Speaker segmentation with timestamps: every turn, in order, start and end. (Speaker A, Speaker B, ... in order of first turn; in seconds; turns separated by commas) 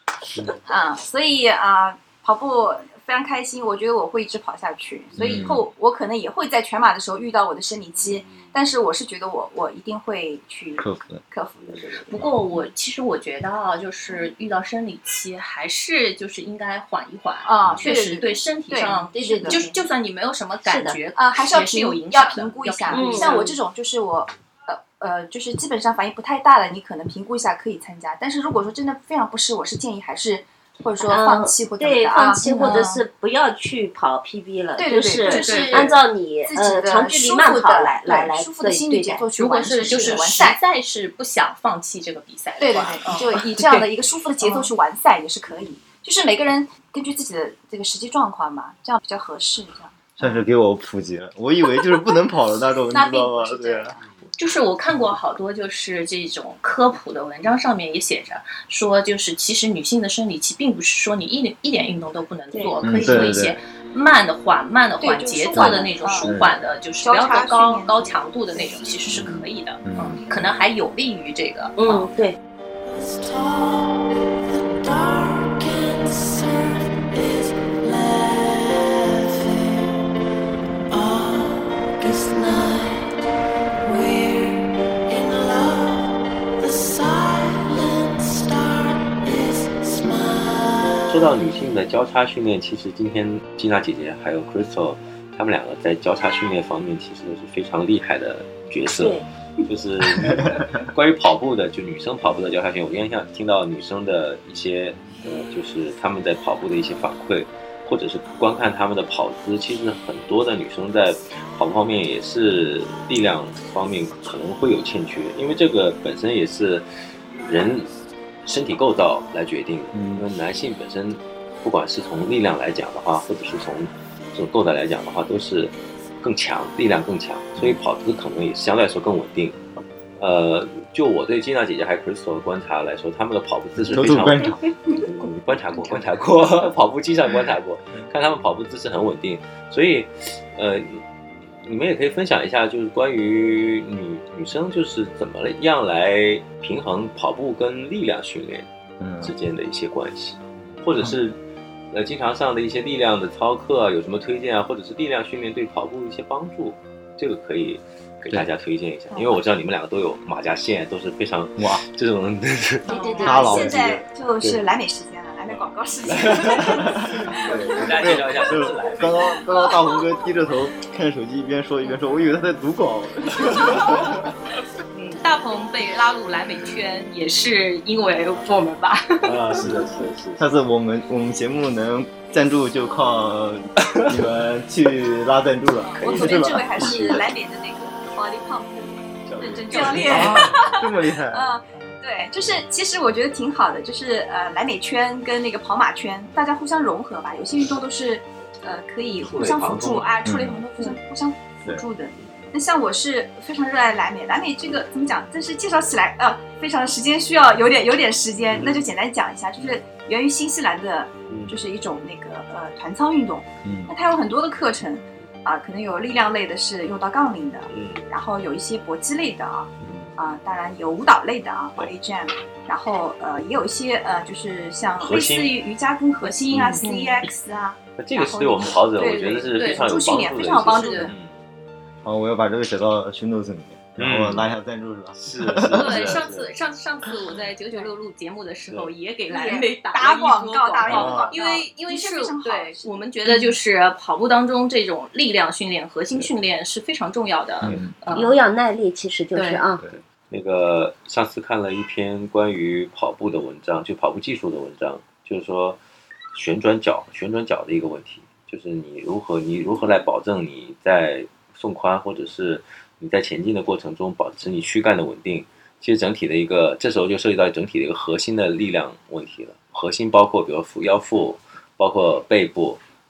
Speaker A: 0.7-12.2, Speaker B: 5.2-5.6, Speaker B: 10.8-11.2, Speaker C: 12.1-23.5, Speaker A: 17.4-19.6, Speaker D: 19.1-19.7, Speaker D: 20.6-21.0, Speaker A: 21.1-33.0, Speaker D: 22.9-23.5, Speaker D: 31.0-39.3, Speaker C: 32.4-32.9, Speaker A: 34.8-40.6, Speaker C: 35.2-36.0, Speaker C: 39.4-43.9, Speaker D: 39.8-40.1, Speaker A: 42.6-50.4, Speaker C: 44.4-44.7, Speaker B: 50.2-53.9, Speaker A: 52.9-54.0, Speaker C: 54.4-72.1, Speaker A: 62.5-63.3, Speaker B: 62.8-63.6, Speaker A: 65.0-66.3, Speaker B: 65.6-66.6, Speaker A: 67.0-68.8, Speaker B: 69.1-70.2, Speaker D: 71.8-72.4, Speaker E: 72.8-79.9, Speaker E: 80.9-83.1, Speaker E: 83.8-91.0, Speaker F: 91.1-129.6, Speaker D: 99.0-99.2, Speaker B: 100.0-100.8, Speaker B: 119.9-120.2, Speaker F: 130.2-141.0, Speaker B: 133.8-134.7, Speaker F: 141.6-148.7, Speaker B: 149.0-149.3, Speaker F: 149.2-151.4, Speaker F: 151.9-162.8, Speaker A: 159.1-159.4, Speaker B: 161.6-161.8, Speaker C: 162.8-163.3, Speaker D: 162.9-163.8, Speaker A: 162.9-168.2, Speaker B: 163.2-164.0, Speaker F: 165.5-169.4, Speaker B: 166.6-174.2, Speaker C: 174.9-179.4, Speaker F: 179.2-180.4, Speaker B: 179.6-187.2, Speaker F: 183.8-184.2, Speaker A: 185.9-231.1, Speaker F: 186.0-187.2, Speaker F: 189.2-190.5, Speaker C: 189.7-190.5, Speaker B: 190.0-191.5, Speaker F: 199.2-200.2, Speaker B: 200.2-200.6, Speaker F: 208.5-208.8, Speaker F: 211.3-211.6, Speaker B: 213.6-213.9, Speaker F: 217.7-218.0, Speaker B: 219.8-220.1, Speaker F: 225.0-225.5, Speaker F: 226.5-226.8, Speaker C: 226.8-227.2, Speaker F: 228.0-231.3, Speaker C: 229.4-229.9, Speaker C: 230.6-231.1, Speaker B: 232.0-236.2, Speaker F: 234.0-234.4, Speaker F: 235.2-236.5, Speaker C: 235.7-248.4, Speaker A: 239.3-243.6, Speaker B: 240.8-241.3, Speaker B: 247.6-247.9, Speaker D: 248.1-249.8, Speaker C: 249.3-249.6, Speaker F: 250.3-255.8, Speaker F: 256.3-272.8